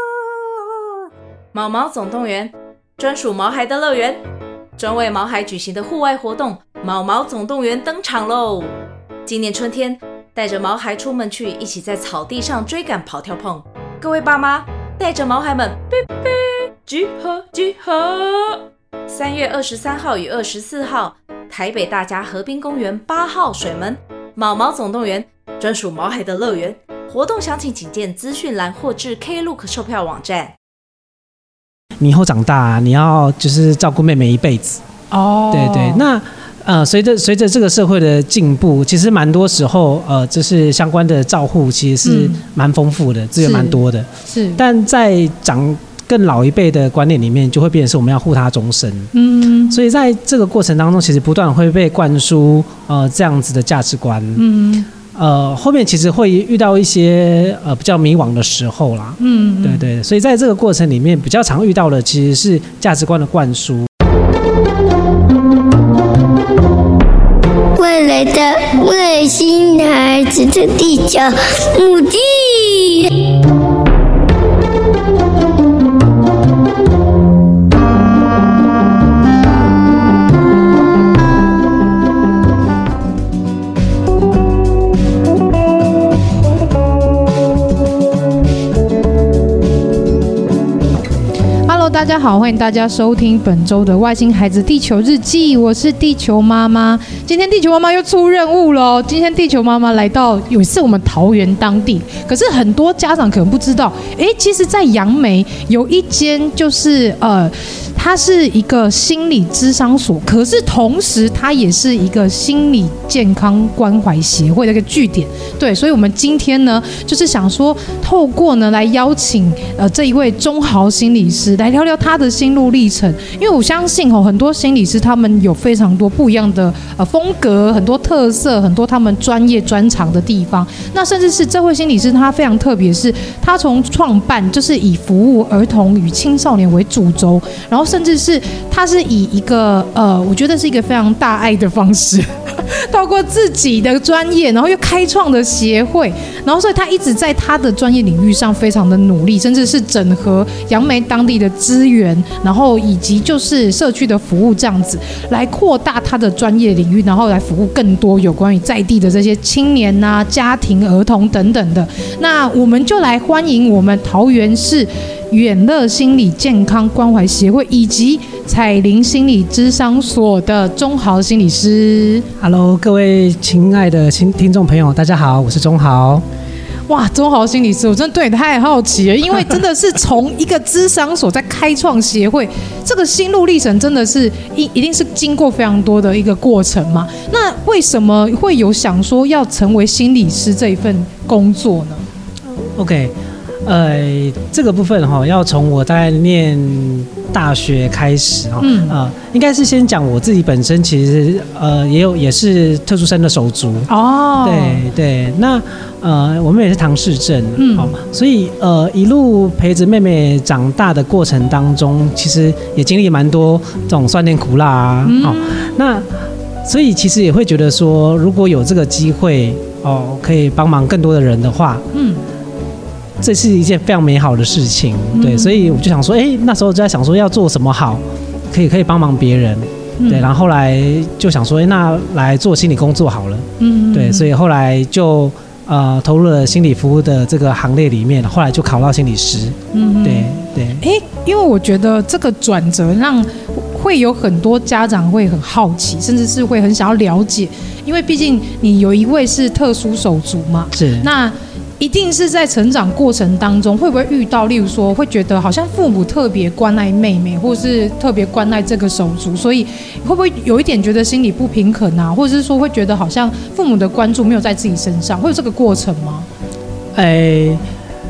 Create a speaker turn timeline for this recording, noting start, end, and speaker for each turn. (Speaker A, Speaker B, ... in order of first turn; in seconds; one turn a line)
Speaker A: 1.5-4.2
Speaker A: 4.8-30.5
Speaker B: 32.0-34.8
Speaker C: 35.1-36.1
Speaker B: 35.5-49.1
Speaker C: 42.0-42.4
Speaker C: 43.4-44.6
Speaker C: 49.1-49.8
Speaker B: 49.7-54.5
Speaker C: 54.4-54.9
Speaker B: 55.1-63.9
Speaker C: 59.2-59.9
Speaker D: 67.8-73.2
Speaker C: 91.7-172.3
Speaker B: 172.4-176.2
Speaker C: 176.9-192.0
Speaker B: 192.5-193.1
Speaker B: 193.7-203.9
Speaker C: 198.6-199.0
Speaker C: 203.9-204.8
Speaker B: 204.4-216.1
Speaker C: 207.6-207.9
Speaker C: 215.1-215.7
Speaker B: 216.6-221.8
Speaker C: 221.9-222.2
Speaker B: 223.2-240.8
Speaker C: 225.1-225.8
Speaker C: 230.0-230.3
Speaker C: 233.6-234.3
Speaker C: 239.7-266.3
Speaker B: 250.7-251.1
Speaker B: 266.9-267.6